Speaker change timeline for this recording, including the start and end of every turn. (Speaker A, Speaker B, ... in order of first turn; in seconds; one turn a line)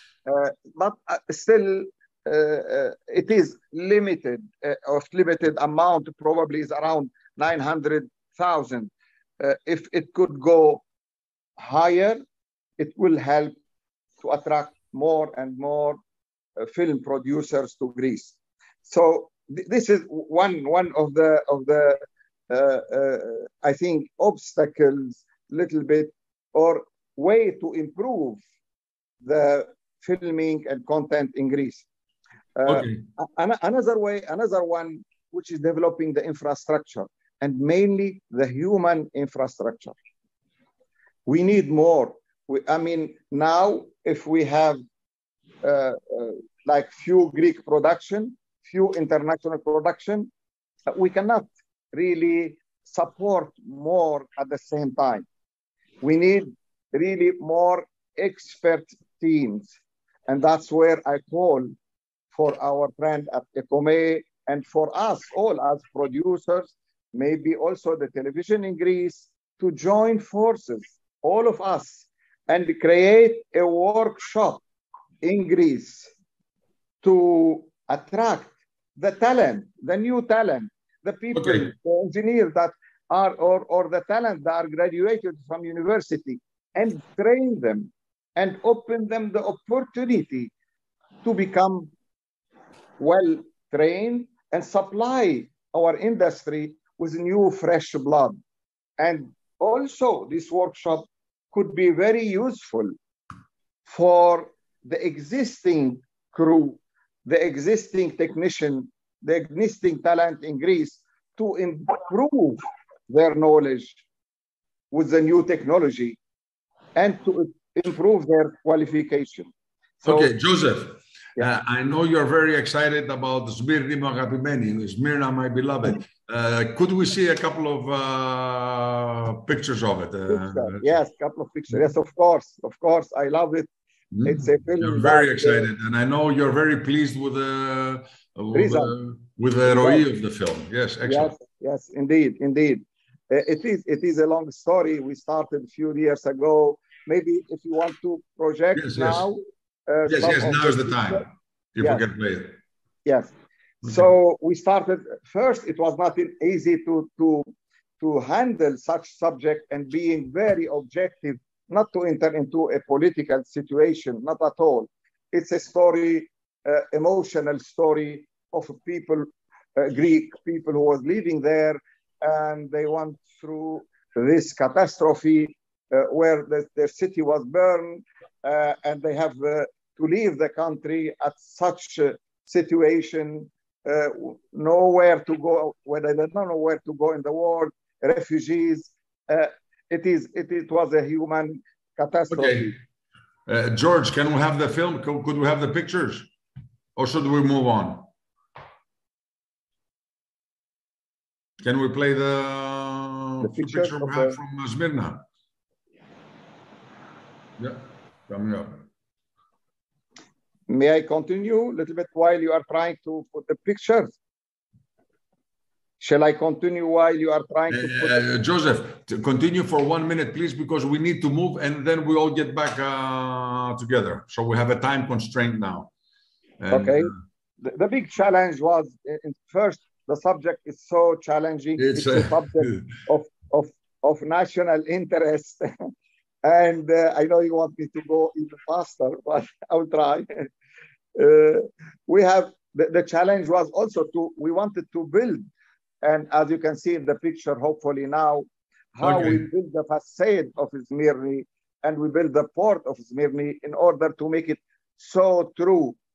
Speaker A: 0.3-10.8
Speaker A: 11.6-12.2
Speaker A: 12.8-13.6
Speaker A: 14.2-16.0
Speaker A: 16.6-28.4
Speaker A: 29.2-31.9
Speaker A: 32.6-40.0
Speaker B: 32.7-33.0
Speaker A: 41.3-44.8
Speaker A: 45.6-50.3
Speaker A: 50.9-55.3
Speaker A: 56.0-59.7
Speaker A: 60.3-61.7
Speaker A: 62.3-74.6
Speaker A: 75.2-76.1
Speaker A: 77.0-90.5
Speaker B: 81.3-81.7
Speaker A: 91.2-91.9
Speaker A: 93.0-98.4
Speaker A: 99.0-102.9
Speaker A: 103.9-114.0
Speaker A: 114.9-116.2
Speaker A: 117.0-120.3
Speaker B: 120.0-130.9
Speaker A: 130.3-133.7
Speaker B: 134.1-141.3
Speaker A: 134.2-135.7
Speaker A: 138.5-138.9
Speaker A: 139.7-140.0
Speaker A: 141.1-151.2
Speaker B: 148.8-149.3
Speaker B: 150.1-152.6
Speaker A: 153.1-157.5
Speaker A: 158.0-192.8
Speaker B: 192.3-192.8
Speaker B: 193.5-196.3
Speaker B: 197.0-198.1
Speaker B: 201.6-205.2
Speaker A: 203.4-204.3
Speaker B: 207.6-208.8
Speaker A: 210.7-214.2
Speaker A: 216.0-218.2
Speaker B: 217.7-225.9
Speaker B: 226.6-227.2
Speaker A: 226.7-235.7
Speaker B: 231.8-232.9
Speaker A: 236.4-240.5
Speaker A: 241.2-245.4
Speaker A: 246.0-256.0
Speaker B: 249.0-249.4